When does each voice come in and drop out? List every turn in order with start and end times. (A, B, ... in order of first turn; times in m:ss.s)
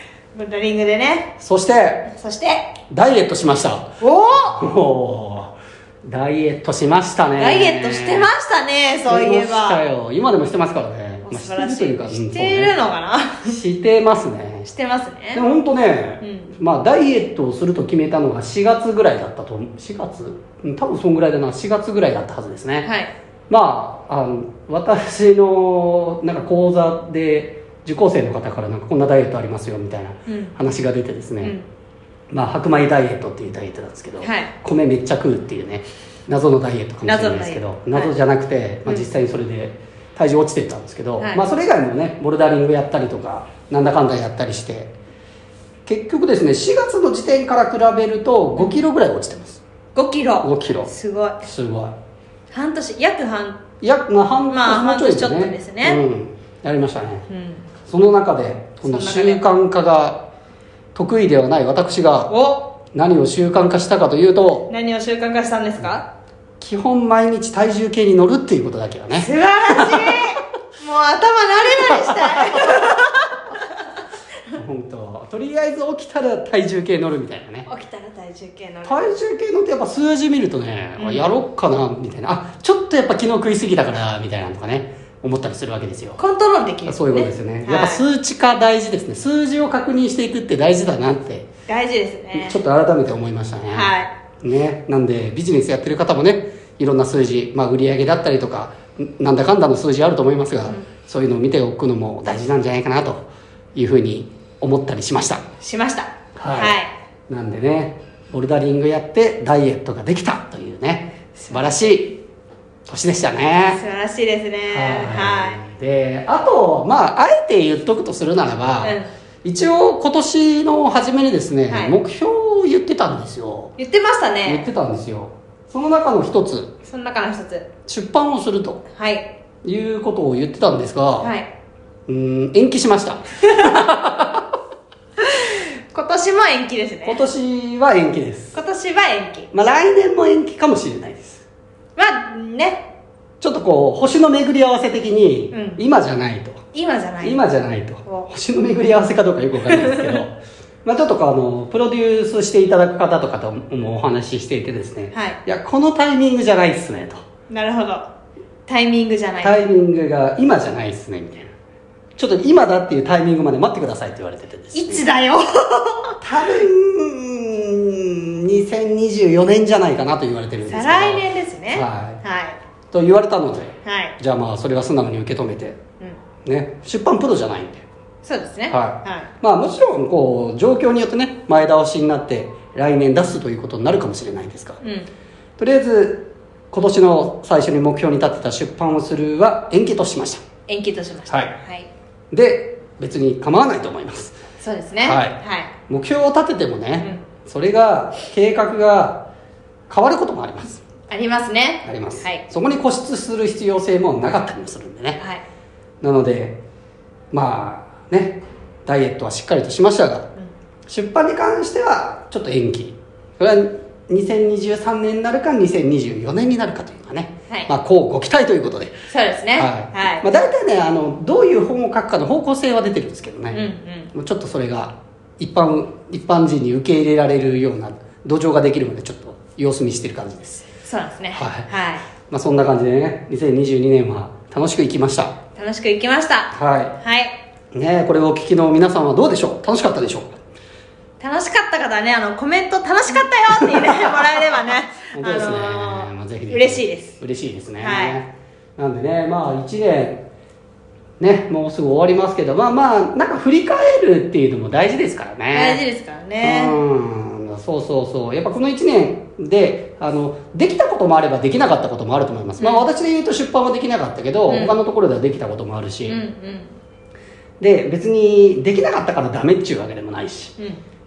0:00.3-0:01.4 A
0:01.4-0:02.1 B
0:02.1-0:02.8 A
0:02.9-0:08.3 B
0:04.0-0:04.6 A
0:07.4-0:09.8 A
0:09.1-0:12.8 B
0:11.2-0:13.6 A
0:13.4-0:14.7 B
0:14.7-0:15.4 A
0:15.3-0:22.9 B
0:16.2-0:16.5 A
0:22.8-0:23.1 A
0:23.5-0:31.6 B
0:30.3-0:30.5 A
0:31.4-0:31.7 A
0:32.3-0:44.9 B
0:34.2-0:34.5 A
0:37.0-0:38.1 A
0:41.2-0:41.5 A
0:45.9-0:49.6 B
0:48.6-0:48.8 A
0:50.0-0:51.4 A
0:50.4-0:50.9 B
0:51.4-0:52.0 B
0:52.5-0:53.6 A
0:53.8-0:57.3 B
0:54.5-0:56.0 A
0:57.3-0:57.6 A
0:57.9-1:00.3 B
0:58.8-0:59.4 A
1:00.9-1:02.3 B
1:02.3-1:02.7 A
1:02.9-1:04.7 B
1:04.7-1:06.1 A
1:06.6-1:10.3 B
1:09.2-1:13.7 A
1:11.9-1:12.8 B
1:14.5-1:17.7 B
1:17.7-1:19.2 A
1:18.8-1:26.2 B
1:21.0-1:21.3 A
1:26.2-1:28.0 A
1:26.8-1:31.5 B
1:31.7-1:32.6 A
1:32.4-1:45.4 B
1:33.7-1:34.1 A
1:45.6-1:46.9 A
1:46.4-1:46.8 B
1:47.3-1:52.2 B
1:51.5-1:51.8 A
1:52.9-1:53.8 B
1:53.7-1:55.6 A
1:54.7-2:03.8 B
1:58.8-1:59.1 A
2:01.7-2:02.0 A
2:03.8-2:04.7 A
2:04.5-2:06.7 B
2:06.8-2:07.7 A
2:07.9-2:08.8 B
2:09.0-2:09.3 A
2:09.6-2:11.3 B
2:11.2-2:11.5 A
2:12.1-2:14.5 B
2:15.3-2:17.2 A
2:17.1-2:18.6 B
2:18.5-2:19.5 A
2:19.5-2:21.4 B
2:22.0-2:22.9 A
2:23.4-2:26.6 B
2:25.5-2:25.8 A
2:26.7-2:27.4 A
2:27.2-2:37.2 B
2:29.6-2:30.2 A
2:35.1-2:35.4 A
2:37.5-2:38.1 A
2:38.7-2:39.6 A
2:39.4-2:41.5 B
2:42.2-2:45.1 B
2:44.7-2:46.2 A
2:46.2-2:52.2 B
2:50.7-2:52.6 A
2:52.9-2:55.8 B
2:53.8-2:54.2 A
2:56.4-2:57.8 B
2:58.2-2:59.3 A
2:58.7-3:04.8 B
3:05.6-3:10.4 B
3:10.7-3:11.9 A
3:11.3-3:11.5 B
3:12.3-3:14.4 B
3:14.6-3:15.7 A
3:15.0-3:15.4 B
3:15.9-3:19.3 B
3:19.9-3:20.8 B
3:21.1-3:22.4 A
3:21.8-3:25.2 B
3:26.0-3:26.6 B
3:27.3-3:30.3 B
3:30.9-3:38.9 B
3:39.1-3:40.2 A
3:39.5-3:50.7 B
3:43.5-3:44.1 A
3:50.8-3:52.0 A
3:51.3-3:51.7 B
3:52.2-3:55.4 B
3:55.6-3:57.4 A
3:56.5-3:57.0 B
3:57.7-4:00.4 B
4:01.2-4:07.2 A
4:03.5-4:04.5 B
4:05.1-4:10.2 B
4:07.8-4:08.2 A
4:11.2-4:15.8 B
4:15.5-4:16.8 A
4:16.4-4:26.2 B
4:22.6-4:22.9 A
4:24.5-4:24.8 A
4:26.1-4:26.8 A
4:27.6-4:30.6 B